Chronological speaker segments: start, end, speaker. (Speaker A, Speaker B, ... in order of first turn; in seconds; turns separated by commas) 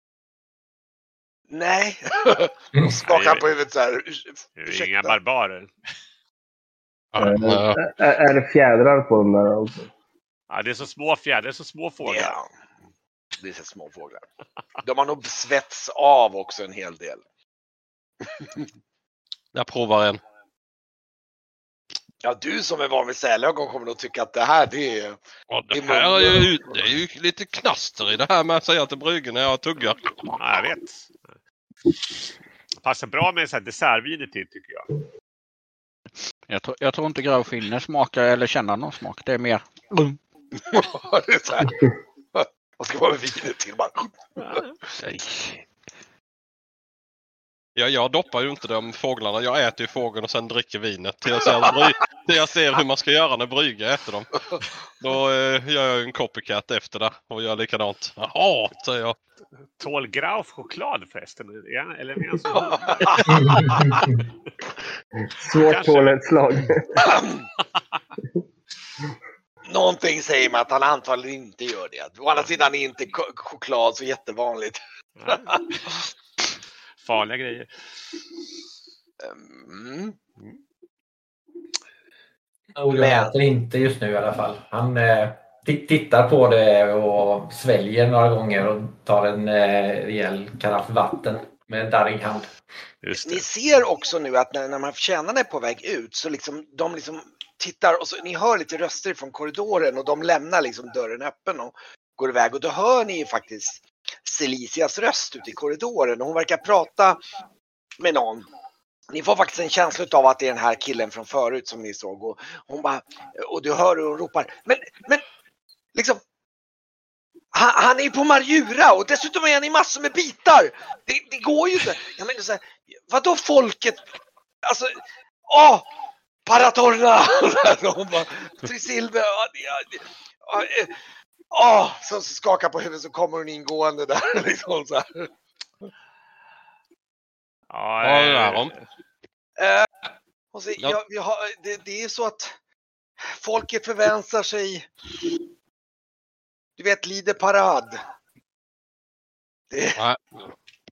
Speaker A: 1.5-5.2, Speaker B: 3.0-3.5, Speaker B: 4.6-5.7, Speaker C: 7.1-7.8, Speaker D: 7.2-9.9, Speaker B: 10.5-12.3, Speaker A: 12.0-12.5, Speaker A: 13.4-14.2, Speaker A: 14.8-17.2, Speaker A: 18.2-18.7, Speaker C: 19.5-20.2, Speaker A: 22.2-25.2, Speaker C: 25.5-30.3, Speaker A: 25.7-26.9, Speaker B: 30.4-31.4, Speaker B: 32.8-34.9, Speaker E: 36.5-40.2, Speaker A: 40.7-41.8, Speaker A: 42.3-44.6, Speaker C: 47.8-59.2, Speaker A: 51.5-51.7, Speaker B: 59.6-63.7, Speaker A: 62.5-63.7, Speaker F: 63.3-64.2, Speaker D: 65.2-67.1, Speaker B: 65.5-66.2, Speaker A: 67.0-67.5, Speaker A: 69.7-74.8, Speaker B: 75.2-75.9, Speaker B: 77.0-77.9, Speaker A: 79.2-80.2, Speaker F: 82.8-92.5, Speaker A: 82.9-83.3, Speaker B: 93.0-93.4, Speaker A: 93.2-107.2, Speaker A: 108.0-108.5, Speaker A: 109.1-115.2, Speaker A: 115.9-116.2, Speaker A: 117.5-124.0, Speaker A: 124.6-125.9, Speaker A: 126.5-130.9, Speaker A: 131.5-135.3, Speaker B: 137.7-138.9, Speaker C: 138.0-138.7, Speaker A: 139.6-139.9, Speaker A: 140.5-142.5, Speaker A: 143.2-144.9, Speaker A: 146.8-148.0, Speaker A: 149.7-150.0, Speaker C: 149.9-150.2